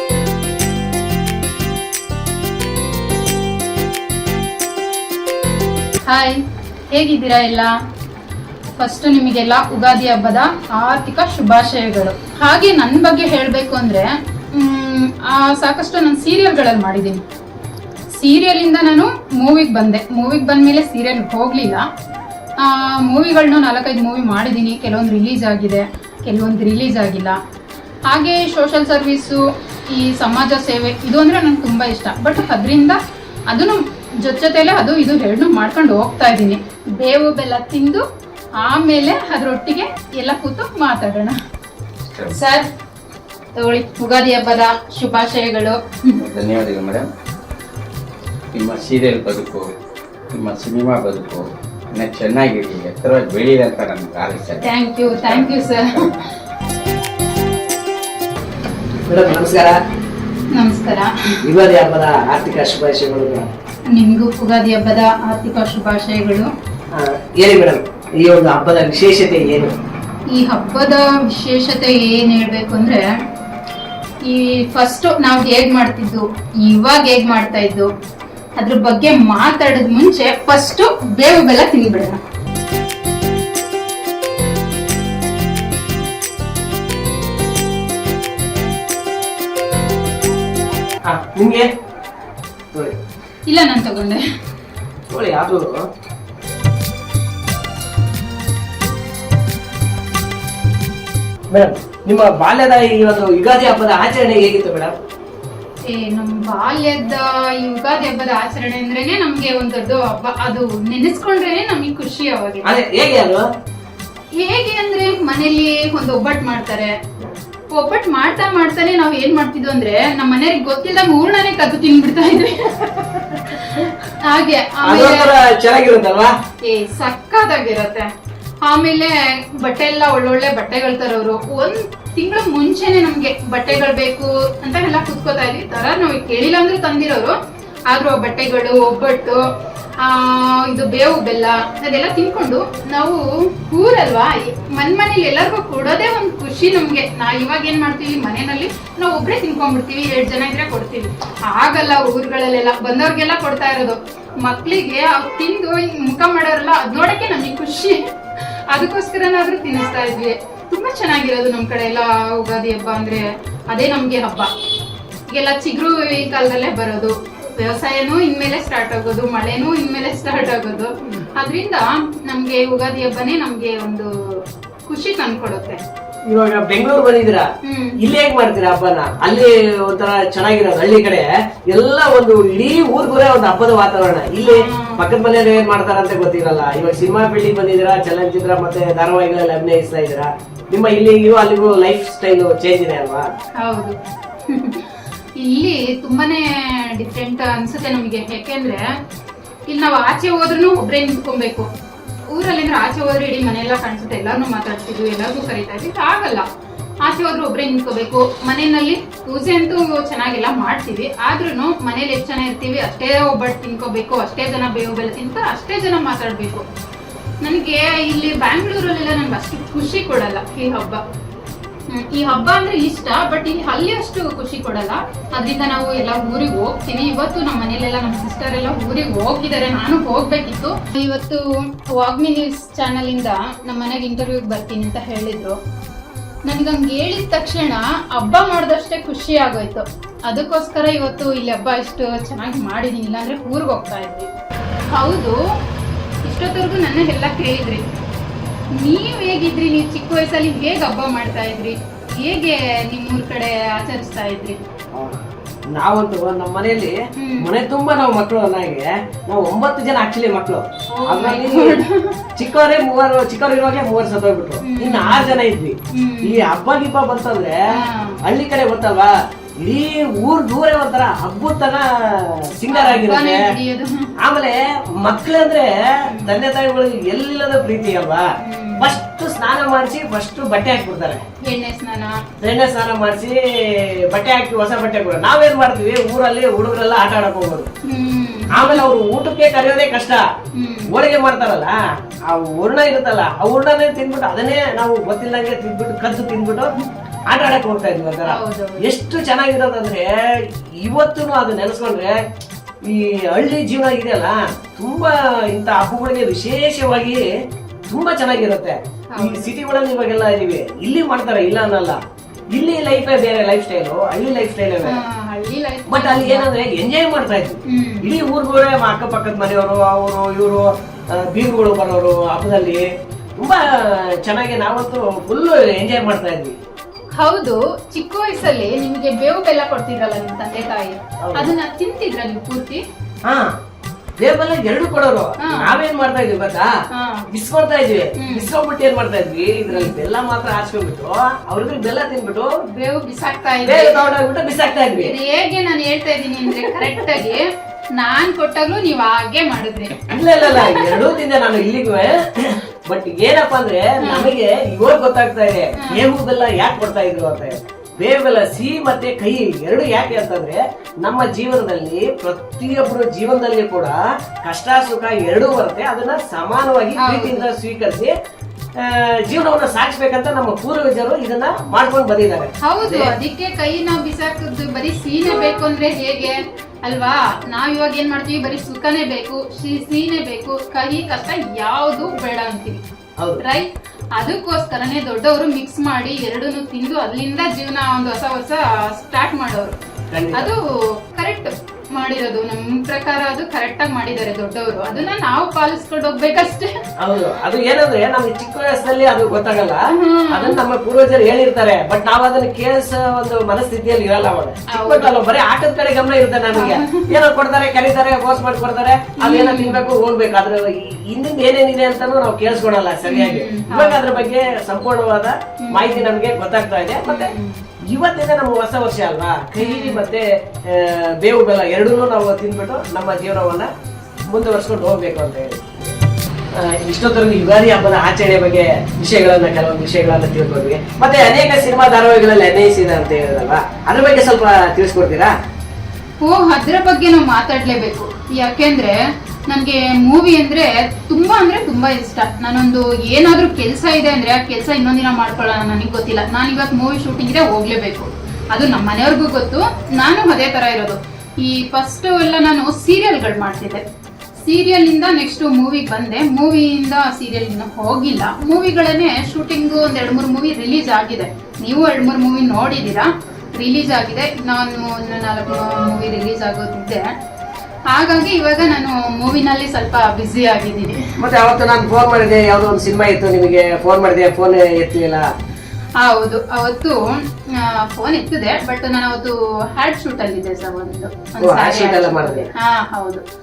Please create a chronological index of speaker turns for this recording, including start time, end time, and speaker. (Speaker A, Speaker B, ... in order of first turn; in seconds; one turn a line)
Speaker A: 6.1-7.7
Speaker A: 8.8-17.2
Speaker A: 18.1-21.8
Speaker A: 22.6-27.4
Speaker A: 28.1-38.0
Speaker A: 38.6-41.4
Speaker B: 42.1-42.3
Speaker A: 42.3-42.7
Speaker A: 43.5-46.2
Speaker B: 46.2-47.1
Speaker B: 48.5-49.7
Speaker B: 50.3-55.4
Speaker A: 54.6-56.3
Speaker C: 59.1-59.8
Speaker A: 60.5-61.1
Speaker C: 61.4-63.5
Speaker A: 63.9-66.5
Speaker C: 66.9-69.7
Speaker A: 70.3-73.0
Speaker A: 74.2-77.9
Speaker A: 78.6-82.2
Speaker C: 91.0-91.7
Speaker A: 93.5-94.2
Speaker C: 95.1-95.8
Speaker C: 101.5-104.9
Speaker A: 105.9-112.7
Speaker C: 112.6-113.4
Speaker A: 114.4-116.9
Speaker A: 117.7-125.3
Speaker C: 124.8-126.3
Speaker A: 126.7-128.1
Speaker A: 128.7-137.3
Speaker A: 137.9-139.4
Speaker A: 140.0-158.0
Speaker A: 158.7-164.5
Speaker A: 165.3-174.1
Speaker A: 174.9-175.8
Speaker C: 176.3-193.3
Speaker A: 177.6-178.0
Speaker A: 184.4-185.0
Speaker A: 193.6-194.0
Speaker A: 194.5-198.8
Speaker A: 199.7-201.7
Speaker A: 202.3-206.4
Speaker A: 207.0-216.7
Speaker A: 217.4-221.0
Speaker A: 221.9-235.6
Speaker A: 236.5-244.3
Speaker A: 244.9-245.4
Speaker A: 246.2-247.8
Speaker A: 248.8-254.6
Speaker C: 254.9-255.2
Speaker C: 255.7-261.8
Speaker A: 257.2-257.5
Speaker A: 260.9-262.2
Speaker C: 262.4-267.6
Speaker A: 264.6-265.4
Speaker A: 265.9-266.6
Speaker A: 267.7-268.2
Speaker C: 268.2-273.5
Speaker A: 272.7-274.1
Speaker C: 274.2-278.2
Speaker A: 276.1-276.4
Speaker A: 278.4-279.0
Speaker C: 278.8-281.2
Speaker A: 281.4-282.2
Speaker C: 282.4-287.7
Speaker A: 287.9-288.8
Speaker C: 288.5-290.2
Speaker A: 290.6-290.9
Speaker C: 290.9-291.8
Speaker C: 292.3-296.7
Speaker C: 297.3-300.1
Speaker A: 298.2-298.8
Speaker C: 300.8-302.2
Speaker C: 302.8-307.2
Speaker C: 307.9-312.0
Speaker A: 309.1-309.5
Speaker C: 312.5-315.0
Speaker A: 314.9-316.5
Speaker C: 315.9-322.9
Speaker A: 317.7-318.1
Speaker C: 323.4-326.6
Speaker A: 327.1-332.8
Speaker C: 331.2-331.5
Speaker C: 333.2-333.5
Speaker C: 334.2-336.7
Speaker A: 335.4-335.8
Speaker A: 336.9-337.2
Speaker C: 337.3-342.5
Speaker A: 338.2-338.5
Speaker A: 339.7-340.0
Speaker A: 342.7-344.1
Speaker C: 343.6-345.1
Speaker A: 344.9-347.5
Speaker A: 348.0-351.0
Speaker C: 350.1-368.1
Speaker A: 354.0-354.3
Speaker A: 355.8-356.0
Speaker A: 367.0-367.5
Speaker C: 368.8-373.1
Speaker A: 372.6-382.9
Speaker A: 383.4-389.8
Speaker C: 390.1-390.5
Speaker A: 390.3-396.7
Speaker C: 397.0-417.3
Speaker A: 399.9-400.6
Speaker A: 404.7-405.1
Speaker A: 406.5-407.2
Speaker A: 409.2-409.8
Speaker A: 413.0-414.1
Speaker A: 415.6-416.1
Speaker A: 417.1-417.6
Speaker C: 417.9-423.7
Speaker A: 419.6-420.0
Speaker C: 424.3-425.9
Speaker C: 426.5-435.3
Speaker A: 436.2-439.0
Speaker A: 439.5-453.8
Speaker A: 454.4-467.1
Speaker A: 467.9-471.0
Speaker C: 471.2-475.2
Speaker A: 476.0-483.2
Speaker C: 481.4-482.5